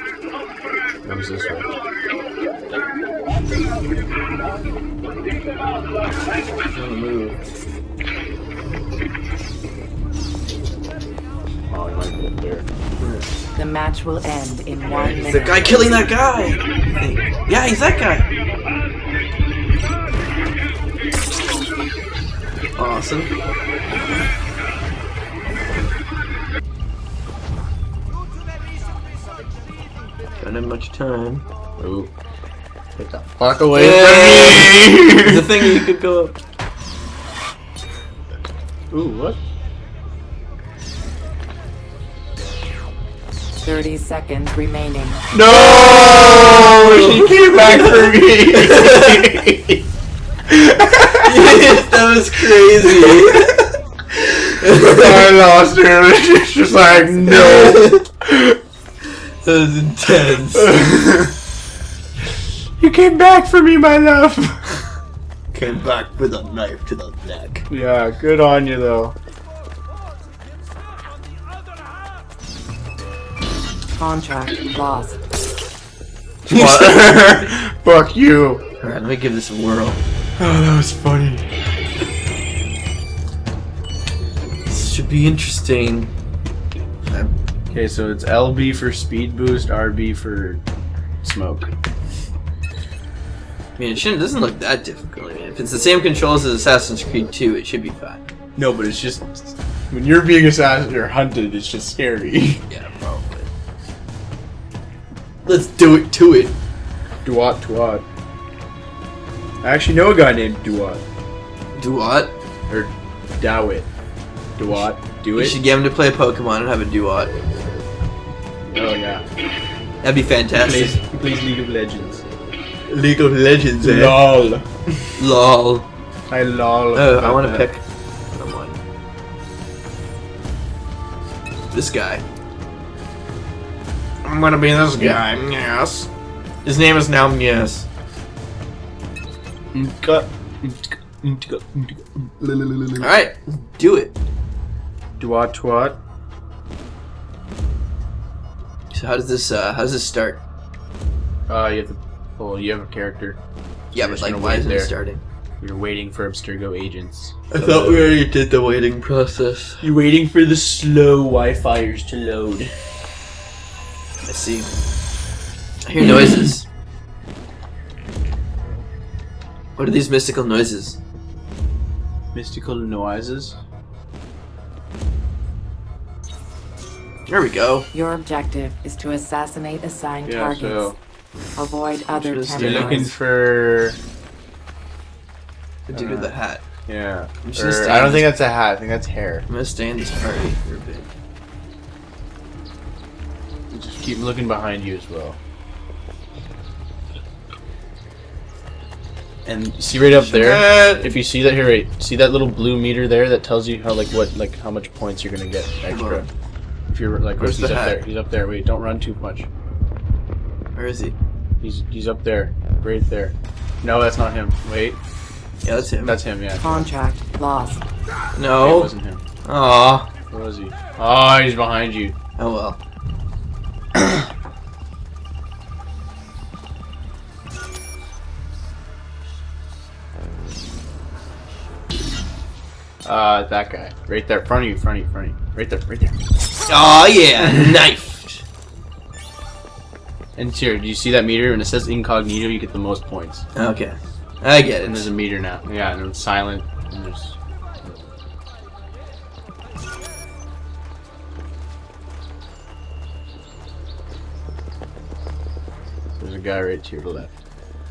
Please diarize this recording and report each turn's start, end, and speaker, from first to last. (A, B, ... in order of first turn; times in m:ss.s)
0:01.0-0:01.7 A
0:06.7-0:07.4 B
0:11.7-0:12.7 A
0:13.0-0:13.3 B
0:13.6-0:16.0 C
0:14.9-0:18.3 B
0:22.8-0:23.3 B
0:30.4-0:31.4 B
0:31.8-0:32.1 A
0:32.9-0:35.8 A
0:33.7-0:36.4 B
0:38.9-0:39.4 A
0:43.6-0:45.3 C
0:45.3-0:49.9 A
0:45.4-0:49.3 B
0:50.5-0:51.8 A
0:51.2-0:53.6 B
0:52.4-0:58.6 A
0:54.6-0:55.4 B
0:57.2-0:58.0 B
0:59.4-1:00.7 B
1:00.3-1:01.4 A
1:02.8-1:04.8 A
1:05.5-1:07.6 B
1:07.7-1:09.2 A
1:13.9-1:15.2 C
1:16.5-1:17.5 B
1:16.5-1:18.6 A
1:18.8-1:20.0 B
1:20.4-1:21.5 A
1:24.7-1:26.1 B
1:27.7-1:30.6 A
1:31.2-1:31.7 A
1:33.8-1:38.2 B
1:38.6-1:42.6 A
1:42.7-1:43.5 B
1:45.4-1:46.6 B
1:47.2-1:48.0 A
1:49.6-1:51.0 A
1:51.8-1:52.3 B
1:52.7-1:53.9 A
1:54.6-1:55.6 A
1:54.7-1:57.3 B
1:58.6-1:59.2 A
2:00.0-2:01.0 B
2:00.6-2:02.2 A
2:02.9-2:04.3 B
2:03.8-2:05.2 A
2:05.2-2:05.8 B
2:06.3-2:07.7 A
2:06.9-2:08.8 B
2:11.7-2:12.2 B
2:14.3-2:15.3 B
2:14.3-2:16.1 A
2:16.6-2:17.9 B
2:19.7-2:23.1 A
2:23.0-2:24.1 B
2:25.2-2:26.0 A
2:28.9-2:30.4 B
2:31.5-2:33.4 A
2:33.9-2:34.9 A
2:33.9-2:35.2 B
2:35.6-2:38.2 A
2:37.5-2:39.8 B
2:39.8-2:42.7 A
2:44.2-2:44.7 B
2:45.8-2:46.7 B
2:49.8-2:51.0 B
2:52.3-2:53.6 A
2:57.3-2:57.9 B
2:57.9-3:00.9 C
3:00.2-3:01.0 A
3:01.6-3:03.1 C
3:02.2-3:03.1 B
3:02.5-3:04.0 A
3:05.9-3:06.6 B
3:05.9-3:06.3 A
3:06.9-3:09.5 A
3:07.4-3:08.3 B
3:09.5-3:11.1 B
3:13.7-3:15.4 A
3:19.4-3:26.2 A
3:20.1-3:21.1 B
3:25.9-3:26.3 B
3:26.9-3:29.5 A
3:27.4-3:28.0 B
3:30.8-3:31.2 B
3:31.6-3:35.0 A
3:35.6-3:36.2 B
3:36.0-3:36.9 A
3:36.6-3:37.8 C
3:38.4-3:38.9 B
3:38.5-3:39.2 A
3:39.4-3:40.1 B
3:40.3-3:42.1 A
3:42.4-3:42.8 B
3:43.9-3:44.2 A
3:53.0-3:56.2 A
3:56.7-3:58.4 B
4:00.4-4:03.4 A
4:03.5-4:05.1 B
4:04.8-4:08.1 A
4:16.2-4:17.4 A